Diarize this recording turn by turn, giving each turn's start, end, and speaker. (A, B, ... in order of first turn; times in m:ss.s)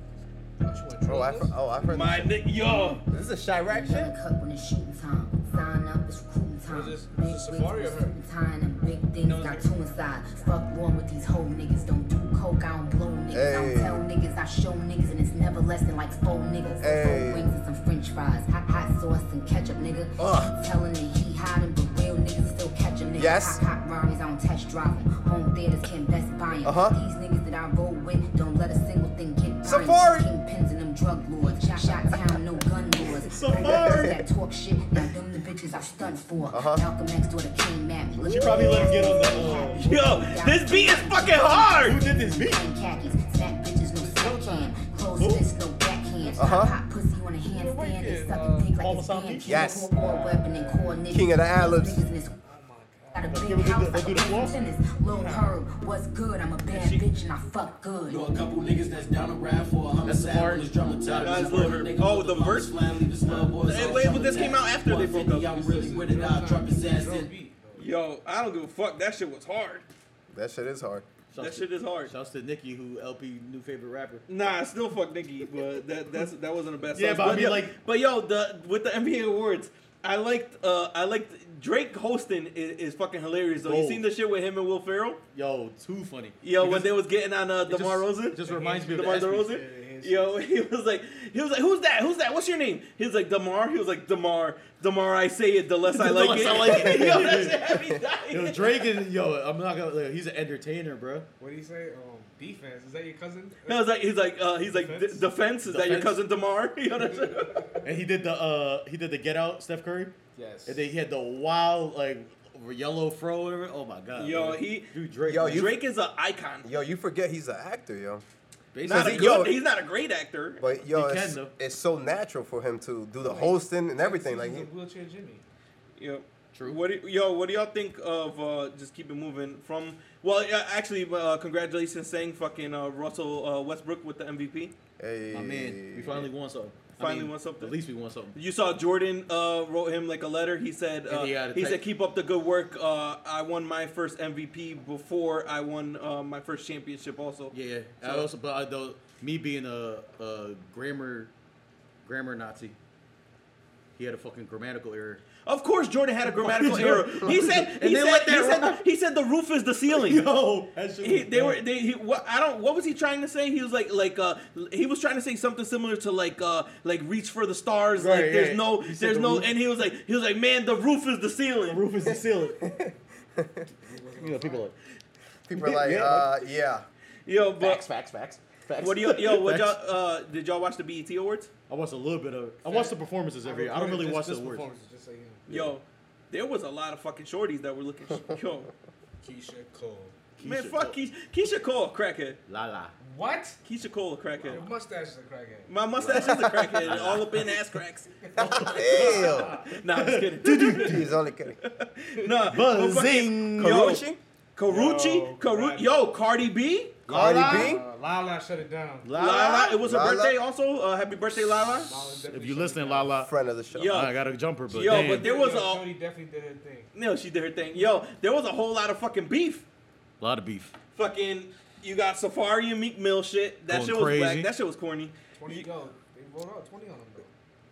0:00.6-0:01.6 A
0:01.1-0:02.4 B
0:01.9-0:03.0 C
0:03.1-0:04.1 B
0:03.7-0:52.4 D
0:06.7-0:08.2 A
0:09.2-0:09.7 C
0:13.3-0:14.0 B
0:16.8-0:17.5 B
0:20.2-0:20.5 B
0:23.2-0:23.6 B
0:26.6-0:27.0 B
0:29.6-0:30.3 B
0:33.3-0:34.2 E
0:36.5-0:36.8 B
0:38.2-0:39.9 E
0:38.4-0:39.1 C
0:39.8-0:42.0 C
0:41.8-0:42.6 E
0:44.1-0:44.7 E
0:45.2-0:45.4 E
0:46.4-0:46.7 B
0:47.5-0:50.4 E
0:48.0-0:48.7 A
0:49.4-0:49.9 B
0:50.3-0:50.8 A
0:51.1-0:52.0 B
0:52.4-0:53.5 A
0:53.1-0:58.2 D
0:53.3-0:54.6 E
0:55.2-0:55.4 C
0:56.7-0:57.0 C
0:58.1-1:07.3 F
1:00.0-1:00.8 E
1:01.2-1:02.8 C
1:01.4-1:01.8 E
1:03.6-1:05.6 C
1:05.5-1:07.9 A
1:07.8-1:09.9 C
1:10.3-1:11.1 B
1:11.3-1:14.2 E
1:11.4-1:12.1 C
1:14.3-1:25.2 C
1:16.9-1:17.8 E
1:23.6-1:24.0 E
1:25.3-1:27.0 E
1:26.4-1:38.9 C
1:27.7-1:29.6 E
1:28.4-1:30.4 A
1:35.9-1:41.3 E
1:36.8-1:37.2 B
1:41.4-1:43.9 A
1:43.7-1:47.7 C
1:44.6-1:45.3 A
1:45.6-1:46.2 E
1:47.0-1:47.9 A
1:47.8-1:50.2 E
1:50.4-1:50.9 A
1:50.7-1:55.7 E
1:54.2-1:56.7 C
1:55.3-1:55.7 B
1:56.6-1:58.2 B
1:58.7-1:59.5 E
1:58.8-2:00.6 C
1:58.9-1:59.6 B
2:00.6-2:04.7 B
2:00.9-2:01.5 E
2:03.2-2:05.4 A
2:06.0-2:14.7 C
2:06.5-2:06.8 E
2:15.0-2:16.3 B
2:15.3-2:18.4 E
2:17.0-2:17.8 C
2:18.4-2:28.3 C
2:21.1-2:21.8 E
2:27.5-2:31.3 E
2:32.0-2:32.8 E
2:34.0-2:35.2 E
2:35.4-2:40.2 C
2:36.2-2:38.8 E
2:39.9-2:41.6 E
2:41.0-2:51.8 C
2:48.0-2:49.5 E
2:51.7-2:52.6 E
2:52.6-2:53.7 B
2:53.8-2:54.7 A
2:54.2-2:54.8 E
2:55.5-2:56.8 B
2:55.6-2:56.4 E
2:57.3-2:57.8 C
2:57.6-2:59.8 E
2:58.8-3:01.5 C
3:01.7-3:04.7 E
3:02.6-3:05.6 A
3:05.5-3:08.7 C
3:09.2-3:10.2 A
3:10.4-3:11.0 E
3:10.4-3:12.4 C
3:12.5-3:13.0 E
3:13.0-3:13.6 A
3:13.6-3:14.7 C
3:14.4-3:16.2 A
3:15.7-3:18.1 C
3:16.0-3:17.6 E
3:16.3-3:16.6 B
3:18.2-3:19.6 A
3:18.4-3:19.6 B
3:18.4-3:21.1 E
3:19.6-3:21.0 C
3:20.8-3:21.6 B
3:21.6-3:24.0 C
3:22.5-3:23.9 E
3:23.6-3:24.2 B
3:24.6-3:27.0 C
3:24.7-3:25.9 A
3:27.1-3:29.2 A
3:27.1-3:27.8 B
3:27.1-3:27.8 E
3:29.0-3:29.8 E
3:29.2-3:32.0 C
3:29.8-3:30.4 B
3:31.8-3:33.2 A
3:32.3-3:33.3 E
3:33.2-3:34.0 B
3:33.7-3:34.1 C
3:33.8-3:35.3 E
3:34.7-3:35.9 C
3:34.8-3:36.9 A
3:37.0-3:39.6 C
3:40.2-3:40.7 E
3:40.9-3:45.7 C
3:43.7-3:44.5 E
3:45.4-3:47.3 A